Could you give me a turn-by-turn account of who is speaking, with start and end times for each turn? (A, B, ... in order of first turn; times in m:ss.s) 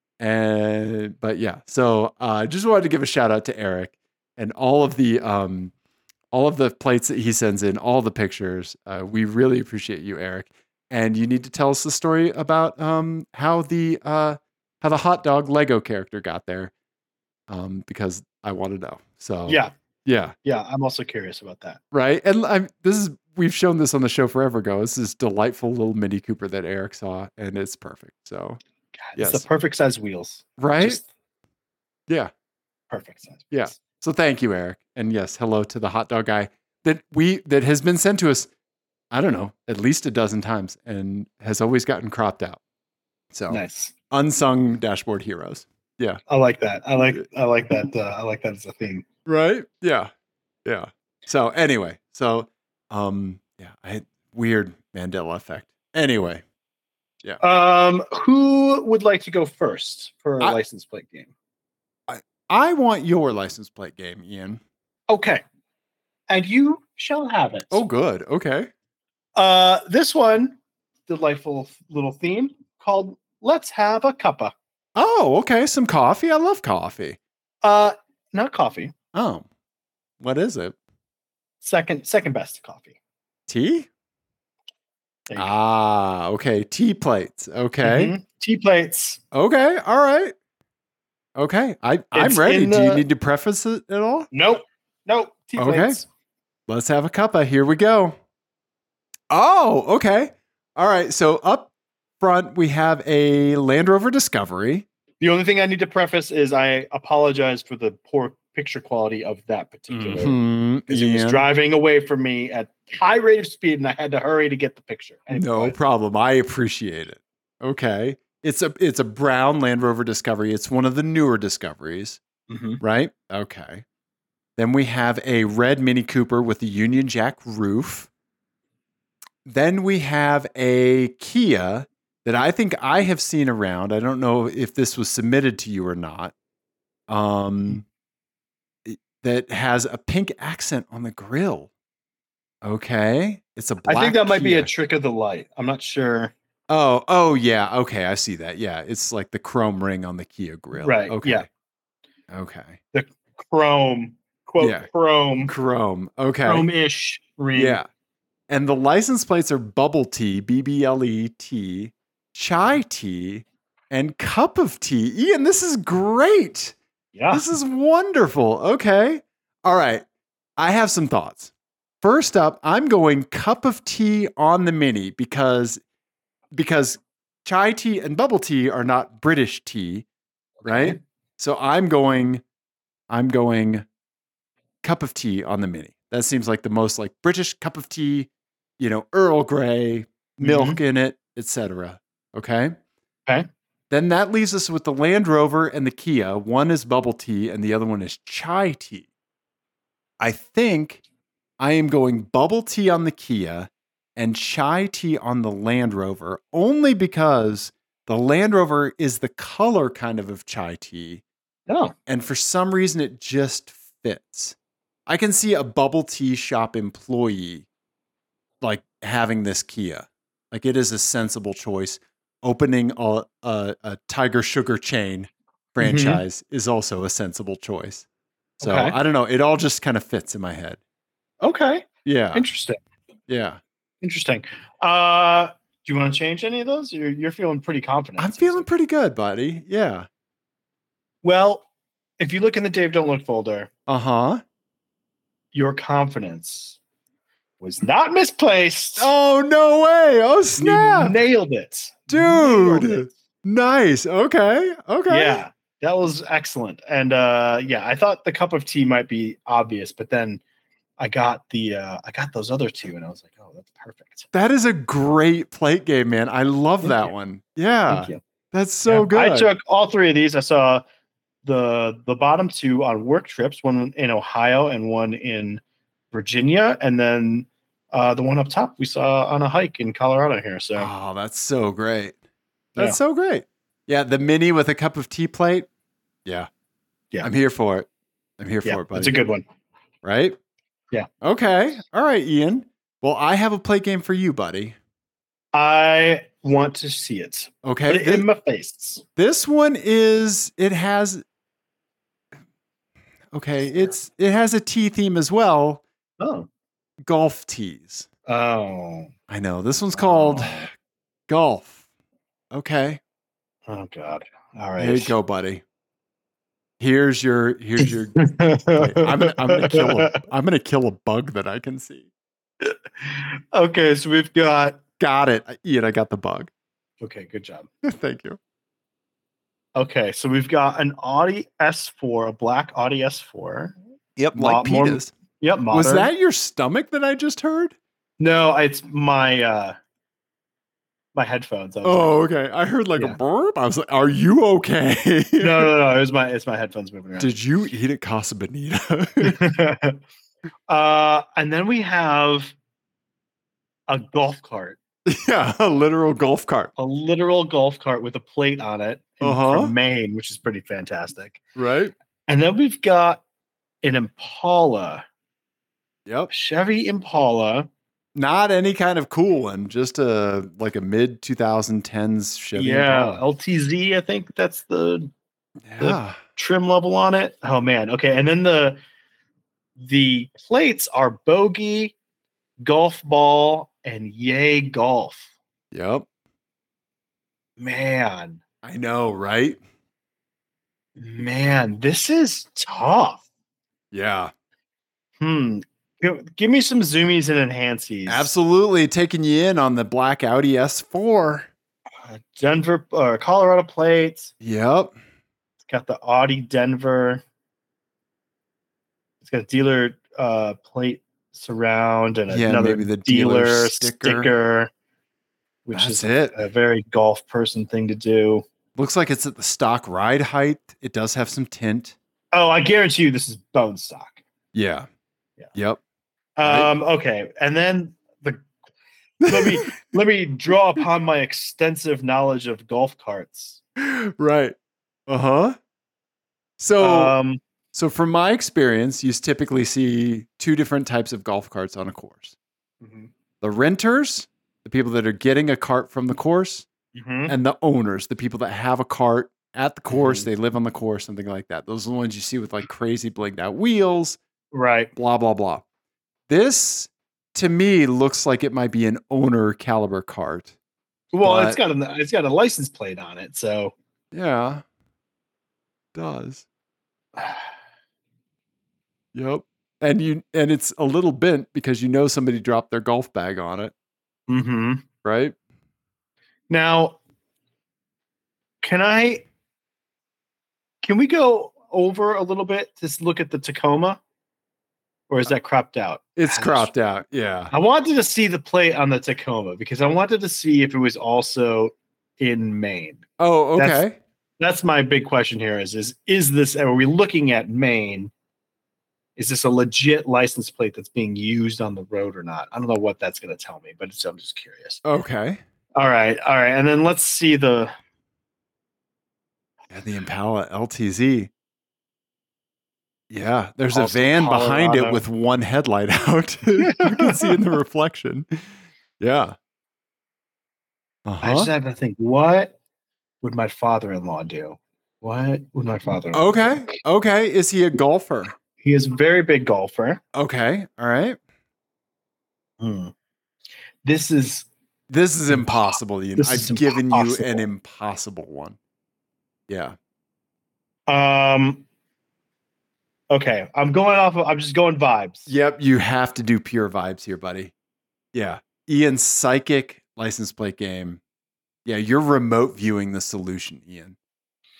0:00.2-0:05.7 A
0:06.3-0:16.7 A
0:17.5-0:20.3 A
0:19.5-0:19.7 B
0:20.4-0:21.8 B
0:21.9-0:28.6 A
0:29.0-0:31.0 B
0:29.2-0:29.4 A
0:30.6-0:31.0 A
0:32.9-0:33.8 B
0:33.5-0:38.5 A
0:39.1-0:42.6 A
0:43.3-0:46.2 A
0:43.5-0:43.9 B
0:46.3-0:49.0 B
0:49.2-0:50.1 A
0:50.6-0:56.4 A
0:57.4-1:01.3 B
1:02.1-1:04.6 A
1:05.1-1:05.4 B
1:06.3-1:07.8 B
1:07.7-1:08.7 A
1:09.4-1:14.5 B
1:14.9-1:17.2 A
1:17.6-1:18.9 B
1:19.1-1:19.4 A
1:20.2-1:20.8 A
1:21.6-1:22.9 B
1:23.5-1:23.9 A
1:25.3-1:28.1 A
1:27.8-1:29.2 B
1:29.3-1:30.3 A
1:31.4-1:34.3 A
1:32.1-1:33.0 B
1:34.3-1:36.0 B
1:35.6-1:36.0 A
1:36.7-1:38.2 A
1:39.3-1:44.8 A
1:45.2-1:55.8 B
1:49.9-1:51.4 A
1:55.3-2:02.2 A
2:02.5-2:02.8 B
2:02.8-2:03.8 A
2:04.6-2:08.1 A
2:09.4-2:16.3 A
2:17.1-2:17.8 A
2:18.8-2:21.7 A
2:22.6-2:24.7 A
2:23.8-2:26.3 B
2:26.7-2:31.4 A
2:30.7-2:31.4 B
2:32.3-2:32.8 A
2:32.9-2:35.5 B
2:34.6-2:34.9 A
2:35.4-2:36.6 A
2:36.4-2:37.8 B
2:37.5-2:37.8 A
2:38.5-2:46.8 A
2:47.1-2:47.5 B
2:47.3-2:50.0 A
2:50.6-2:55.8 A
2:56.5-3:00.0 A
3:00.6-3:01.0 B
3:00.6-3:02.4 A
3:03.1-3:03.8 A
3:04.8-3:12.7 A
3:10.4-3:10.8 B
3:13.9-3:19.1 A
3:20.2-3:21.0 A
3:21.6-3:31.2 A
3:31.7-3:31.9 B
3:32.1-3:34.6 A
3:35.1-3:37.7 A
3:38.6-3:48.0 A
3:45.8-3:46.2 B
3:48.6-3:49.0 B
3:48.6-3:50.8 A
3:51.4-3:52.8 B
3:52.0-3:52.4 A
3:53.3-3:53.6 A
3:54.0-3:58.7 B
3:58.2-4:00.1 A
4:01.2-4:01.6 B
4:02.2-4:03.7 B
4:03.9-4:04.4 A
4:05.5-4:06.8 B
4:07.6-4:09.1 B
4:09.0-4:11.2 A
4:10.6-4:13.1 B
4:12.1-4:15.4 A
4:15.1-4:20.4 B
4:21.0-4:24.3 B
4:24.3-4:29.5 A
4:26.8-4:27.1 B
4:27.9-4:28.2 B
4:28.8-4:30.8 B
4:31.4-4:40.9 B
4:40.8-4:42.2 A
4:42.8-4:45.7 A
4:47.2-4:47.9 A
4:48.4-4:49.2 A
4:48.6-4:49.4 B
4:50.0-4:50.4 A
4:51.2-4:54.8 A
4:55.5-4:59.0 B
4:57.6-4:58.2 A
4:59.2-5:01.2 A
5:03.3-5:05.8 A
5:06.2-5:06.5 B
5:07.0-5:08.1 A
5:08.3-5:09.1 B
5:09.3-5:10.7 A
5:09.9-5:10.7 B
5:11.3-5:11.8 A
5:12.5-5:13.0 A
5:13.7-5:15.1 B
5:14.8-5:15.6 A
5:16.8-5:22.1 A
5:17.8-5:20.2 B
5:22.6-5:24.8 B
5:25.0-5:26.5 A
5:27.0-5:27.7 B
5:27.8-5:28.4 A
5:29.8-5:33.8 B
5:34.2-5:35.1 A
5:34.3-5:36.1 B
5:35.7-5:37.7 A
5:38.2-5:39.7 B
5:41.1-5:42.2 B
5:41.8-5:45.7 A
5:45.4-5:47.4 B
5:47.2-5:49.4 A
5:49.2-5:50.0 B
5:50.7-5:52.5 B
5:53.9-5:54.8 B
5:55.0-5:56.7 A
5:56.8-6:01.4 B
5:59.2-5:59.7 A
6:01.5-6:01.9 A
6:02.3-6:03.2 B
6:03.8-6:05.0 B
6:06.0-6:06.3 A
6:06.3-6:07.7 B
6:08.1-6:13.2 A
6:12.5-6:15.1 B
6:15.6-6:16.2 A
6:15.8-6:18.8 B
6:19.8-6:21.9 B
6:22.6-6:25.3 B
6:25.7-6:26.0 A
6:27.6-6:28.4 B
6:28.6-6:29.6 A
6:31.0-6:33.2 B
6:33.9-6:34.3 A
6:35.2-6:38.3 B
6:38.1-6:41.5 A
6:42.0-6:44.3 B
6:44.4-6:44.9 A
6:45.7-6:47.2 B
6:49.2-6:54.7 B
6:52.3-6:54.3 A
6:55.6-6:58.4 B
6:55.7-6:56.4 A
6:58.8-7:02.0 A
7:02.3-7:04.2 B
7:04.5-7:04.9 A
7:05.5-7:05.8 A
7:06.4-7:08.4 B
7:06.4-7:06.7 A
7:09.2-7:09.8 A
7:09.3-7:13.6 B
7:13.8-7:14.6 A
7:15.1-7:15.6 A
7:16.6-7:17.1 A
7:16.8-7:17.4 B
7:17.7-7:22.4 A
7:22.8-7:23.1 B
7:23.4-7:26.6 A
7:26.9-7:27.3 B
7:27.3-7:34.2 A
7:29.9-7:30.3 B
7:34.5-7:34.9 B
7:35.0-7:35.6 A
7:36.3-7:40.5 A
7:41.1-7:43.7 B
7:41.2-7:41.6 A
7:44.1-7:44.6 A
7:45.9-7:46.4 A
7:47.2-7:47.4 B
7:49.1-7:53.7 A
7:54.3-7:54.8 B
7:55.0-7:55.3 A
7:56.5-7:57.0 B
7:58.6-7:59.3 B
8:00.8-8:04.0 B
8:05.1-8:06.7 B
8:06.2-8:07.5 A
8:07.5-8:13.0 B
8:13.2-8:14.0 A
8:13.6-8:13.8 B
8:14.4-8:18.1 B
8:19.2-8:24.8 B
8:24.8-8:25.4 A
8:25.8-8:27.7 B
8:29.7-8:31.3 A
8:33.1-8:38.4 A
8:33.7-8:35.0 B
8:36.6-8:37.4 B
8:39.0-8:39.4 A
8:41.0-8:41.5 A
8:41.2-8:42.5 B
8:43.2-8:46.8 B
8:46.1-8:48.3 A
8:48.6-8:50.0 B
8:50.1-8:51.2 A
8:52.6-8:52.9 B
8:53.8-8:54.5 B
8:54.9-8:58.6 A
8:55.3-8:55.6 B
8:56.2-8:57.4 B
8:59.5-8:59.8 A
9:00.9-9:01.6 B
9:03.1-9:05.3 B
9:05.3-9:07.5 A
9:08.1-9:11.0 A
9:11.6-9:14.0 A